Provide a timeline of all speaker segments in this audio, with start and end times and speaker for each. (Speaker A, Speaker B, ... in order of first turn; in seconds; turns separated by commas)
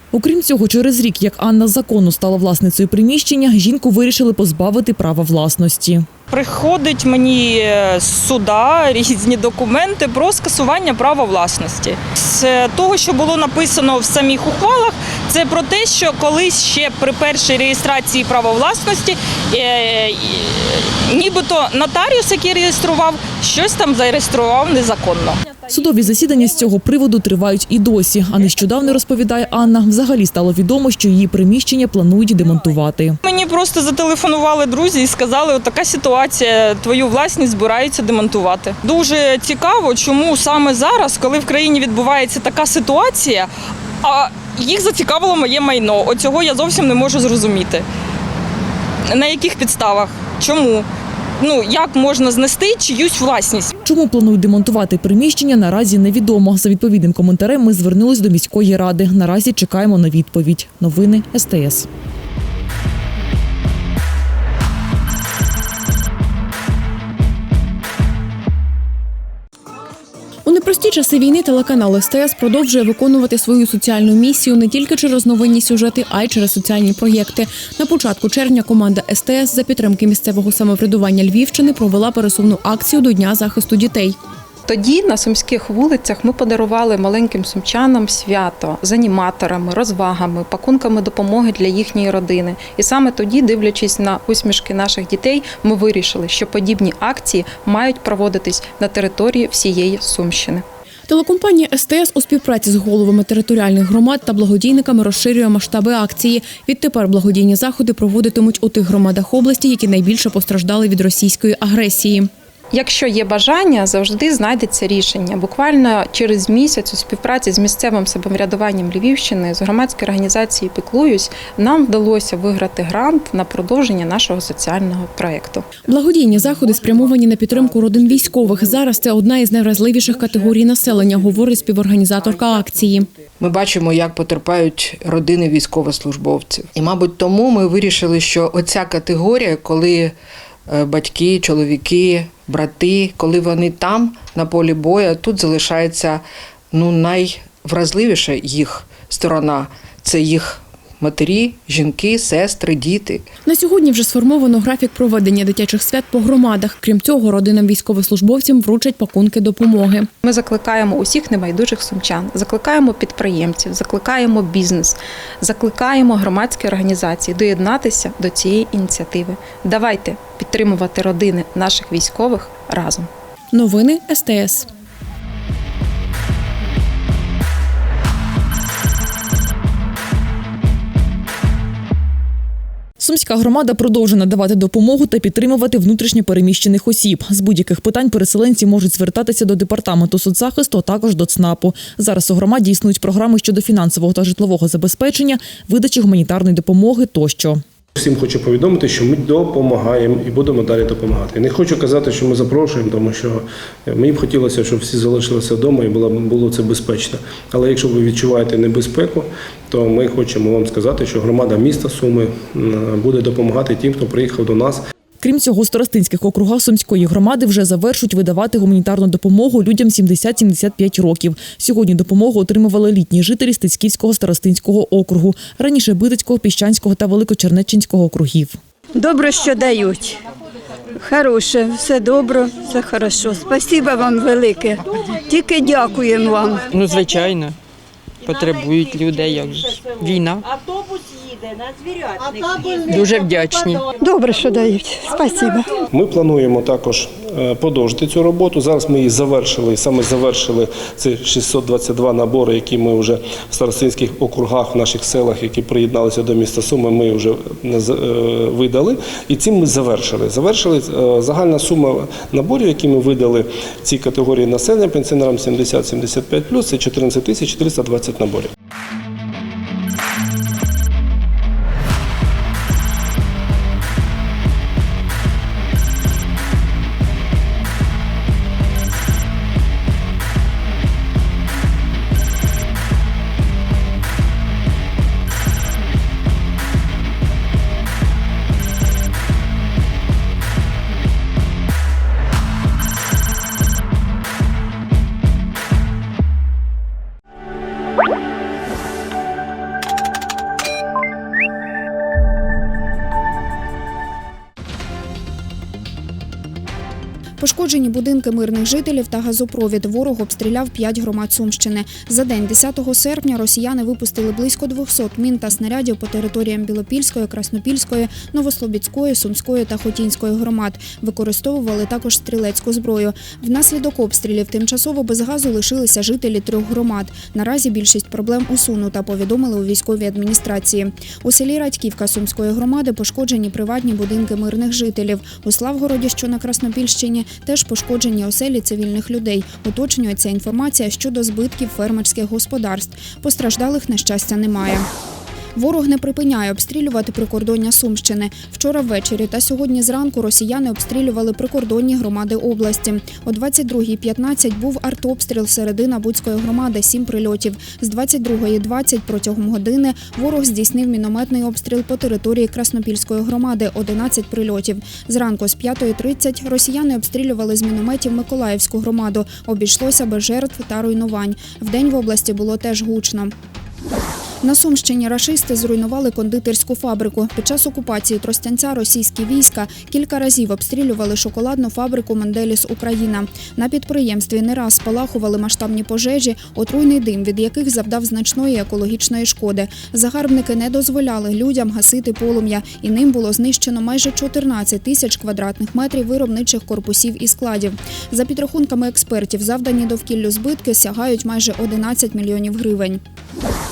Speaker A: 0.1-6.1, Speaker B: 6.3-25.4, Speaker A: 25.7-33.2, Speaker B: 33.2-43.5, Speaker B: 44.0-47.8, Speaker B: 49.1-50.8, Speaker B: 51.4-53.7, Speaker A: 53.8-61.9, Speaker C: 70.5-84.2, Speaker D: 84.7-100.6, Speaker C: 101.1-112.3, Speaker D: 112.7-125.7, Speaker C: 125.8-133.1, Speaker E: 133.4-140.1, Speaker E: 140.7-153.3, Speaker C: 153.4-160.1, Speaker D: 160.2-173.1, Speaker C: 173.5-174.7, Speaker A: 183.0-197.6, Speaker F: 197.9-214.8, Speaker A: 215.2-228.6, Speaker G: 228.9-230.2, Speaker G: 231.0-236.6, Speaker H: 236.7-237.5, Speaker H: 238.2-240.4, Speaker H: 242.9-243.8, Speaker G: 244.0-245.7, Speaker F: 245.9-268.5, Speaker I: 307.4-344.9, Speaker I: 345.5-373.3, Speaker I: 374.4-403.0